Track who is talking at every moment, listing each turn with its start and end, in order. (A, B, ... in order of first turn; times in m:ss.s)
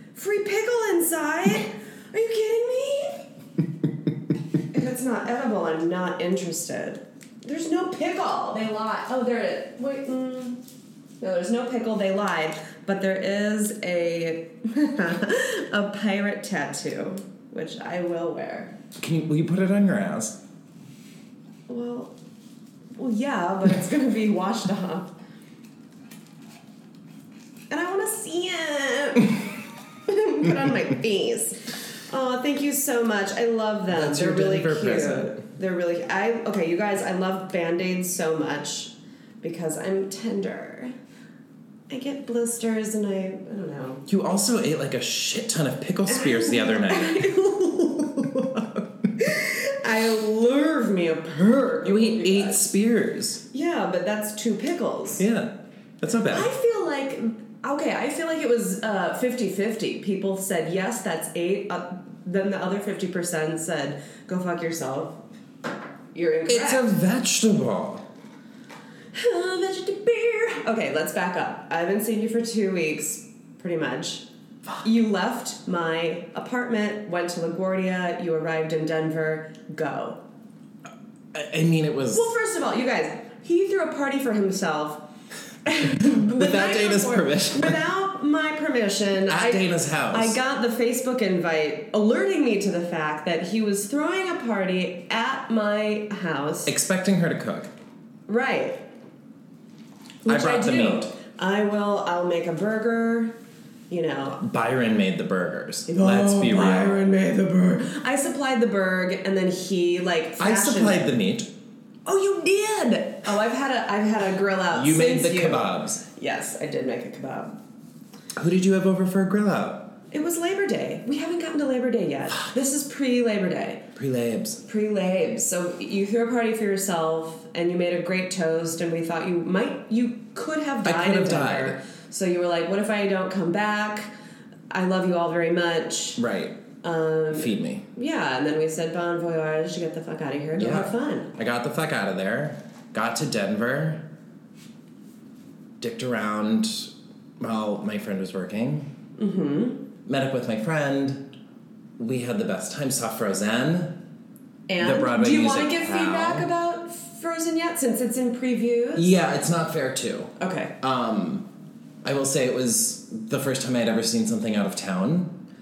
0:00.1-0:03.3 A
0:04.7-0:10.6 A
0:11.2-0:18.7 A
0:19.0-0:20.4 B
0:21.7-0:22.1 A
0:23.0-0:25.2 A
0:27.7-0:29.4 A
0:30.1-0:40.9 A
0:33.9-0:35.4 B
0:41.9-0:44.0 A
0:44.1-0:49.1 B
0:46.1-0:47.4 A
0:49.2-0:52.7 A
0:51.8-0:53.4 B
0:53.5-0:55.3 A
0:55.2-0:56.5 B
0:56.3-1:05.2 A
1:06.1-1:06.9 A
1:06.5-1:08.0 B
1:09.1-1:14.3 A
1:14.8-1:20.2 A
1:21.3-1:22.3 B
1:22.1-1:25.1 A
1:25.6-1:36.7 A
1:26.0-1:27.8 B
1:29.3-1:30.4 B
1:36.6-1:37.7 B
1:38.3-1:38.8 A
1:40.2-1:41.2 B
1:40.2-1:43.4 A
1:43.9-1:44.4 A
1:44.4-1:47.2 B
1:45.9-1:51.2 A
1:50.4-1:51.5 B
1:52.0-1:57.6 A
1:54.7-1:56.0 B
1:58.3-2:00.0 B
2:00.1-2:03.8 A
2:04.0-2:04.6 B
2:04.6-2:14.1 A
2:10.8-2:11.8 B
2:14.7-2:16.2 A
2:16.2-2:16.6 B
2:16.8-2:21.3 A
2:17.3-2:17.8 B
2:20.5-2:24.1 B
2:25.8-2:28.9 B
2:29.2-2:29.8 A
2:30.0-2:31.3 B
2:32.0-2:34.0 B
2:34.7-2:39.1 A
2:34.8-2:36.5 B
2:38.9-2:41.5 B
2:40.4-2:40.7 A
2:42.0-2:45.4 B